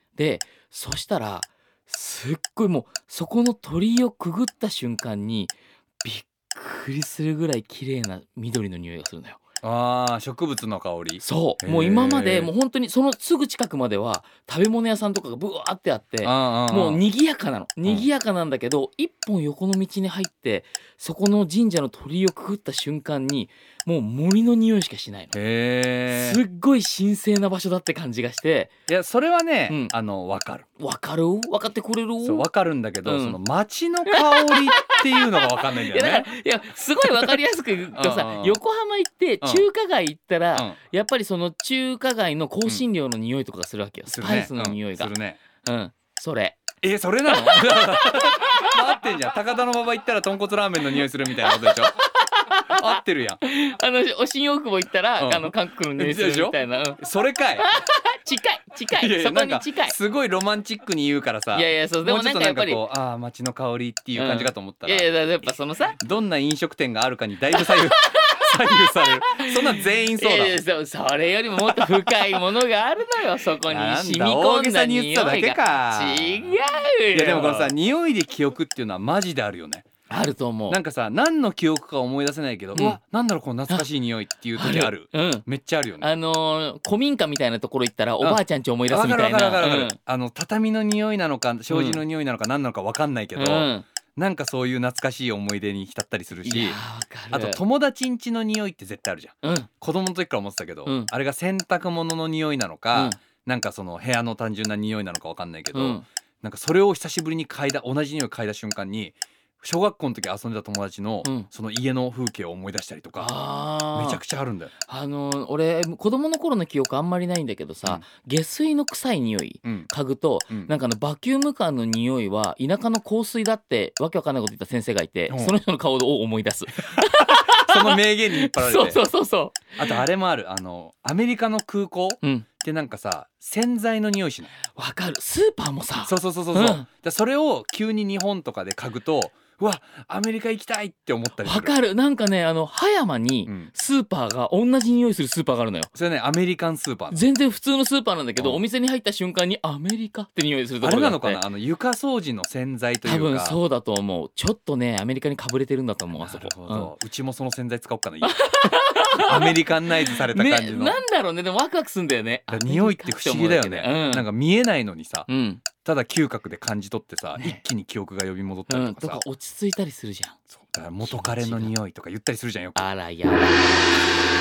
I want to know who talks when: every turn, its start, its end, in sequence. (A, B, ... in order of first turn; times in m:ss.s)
0:00.2-0:09.4 A
0:09.6-0:12.5 B
0:11.2-0:25.3 A
0:16.2-0:17.0 B
0:25.3-0:26.4 B
0:26.1-0:28.7 A
0:28.9-0:30.6 B
0:29.7-0:29.9 A
0:30.8-0:32.4 A
0:32.2-0:36.3 B
0:33.0-0:33.4 A
0:34.1-0:45.1 A
0:37.1-0:37.4 B
0:37.9-0:38.6 B
0:44.1-0:45.4 B
0:45.6-0:46.6 A
0:46.8-0:52.0 B
0:47.2-0:49.0 A
0:51.0-0:57.0 A
0:52.7-0:53.4 B
0:55.2-0:57.7 B
0:57.6-0:59.9 A
0:59.0-1:05.1 B
1:01.5-1:02.8 A
1:04.1-1:06.0 A
1:06.0-1:10.6 B
1:07.5-1:17.7 A
1:11.6-1:12.4 B
1:13.6-1:16.6 B
1:17.1-1:19.8 B
1:20.1-1:20.8 A
1:20.7-1:26.0 B
1:22.7-1:23.0 A
1:24.6-1:25.5 A
1:26.0-1:30.0 A
1:28.2-1:36.8 B
1:31.7-1:32.0 A
1:33.3-1:33.8 A
1:36.4-1:37.6 A
1:37.3-1:53.3 B
1:39.4-1:39.7 A
1:40.8-1:41.1 A
1:42.9-1:43.2 A
1:45.7-1:46.0 A
1:53.2-1:54.2 A
1:53.9-1:54.7 B
1:54.9-2:10.0 A
1:59.6-1:59.9 B
2:05.3-2:05.5 B
2:07.1-2:09.0 B
2:09.8-2:14.6 B
2:12.2-2:12.5 A
2:14.7-2:16.9 A
2:16.0-2:21.7 B
2:21.4-2:25.9 A
2:25.9-2:27.2 B
2:27.1-2:31.4 A
2:28.4-2:28.6 B
2:30.8-2:33.6 B
2:33.0-2:36.9 A
2:36.1-2:38.4 B
2:38.2-2:44.2 A
2:39.1-2:41.0 B
2:42.5-2:45.3 B
2:45.3-2:45.6 A
2:45.8-2:49.2 B
2:47.4-2:47.6 A
2:48.7-2:50.4 A
2:50.5-2:52.9 B
2:51.0-2:51.7 A
2:52.8-2:54.1 A